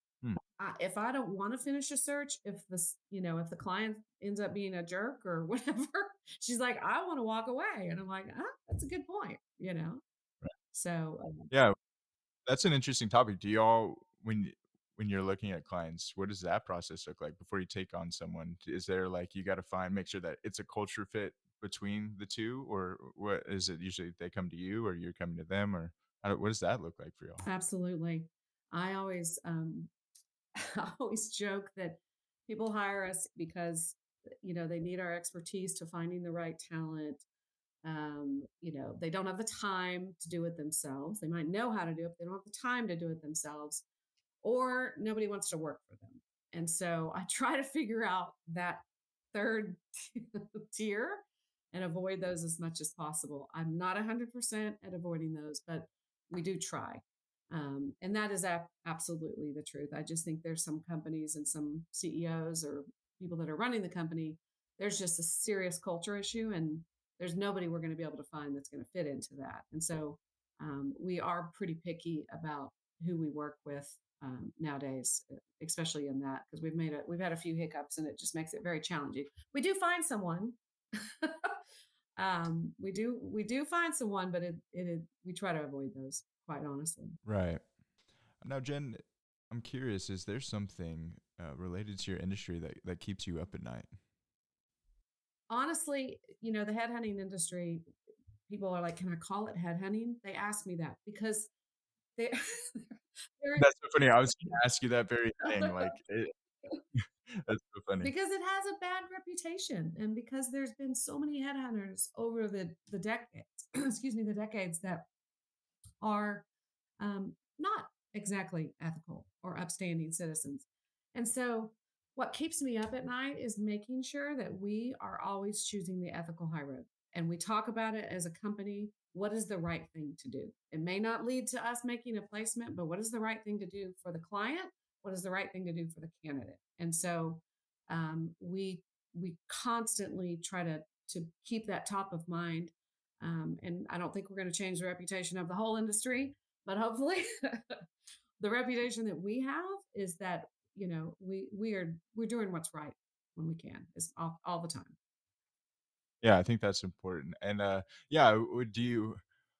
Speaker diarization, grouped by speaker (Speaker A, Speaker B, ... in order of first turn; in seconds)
Speaker A: 0.6-10.0, 10.7-11.5, 27.4-29.9, 30.6-37.2, 37.8-43.8, 44.4-81.5, 82.2-87.2, 95.5-97.8, 98.5-101.5, 102.2-103.7, 105.5-105.9, 108.0-115.1, 116.0-116.5, 117.0-147.8, 148.4-155.0
Speaker B: 12.5-27.4, 87.2-87.7, 88.4-94.0, 103.6-106.3, 107.0-108.1, 156.2-159.2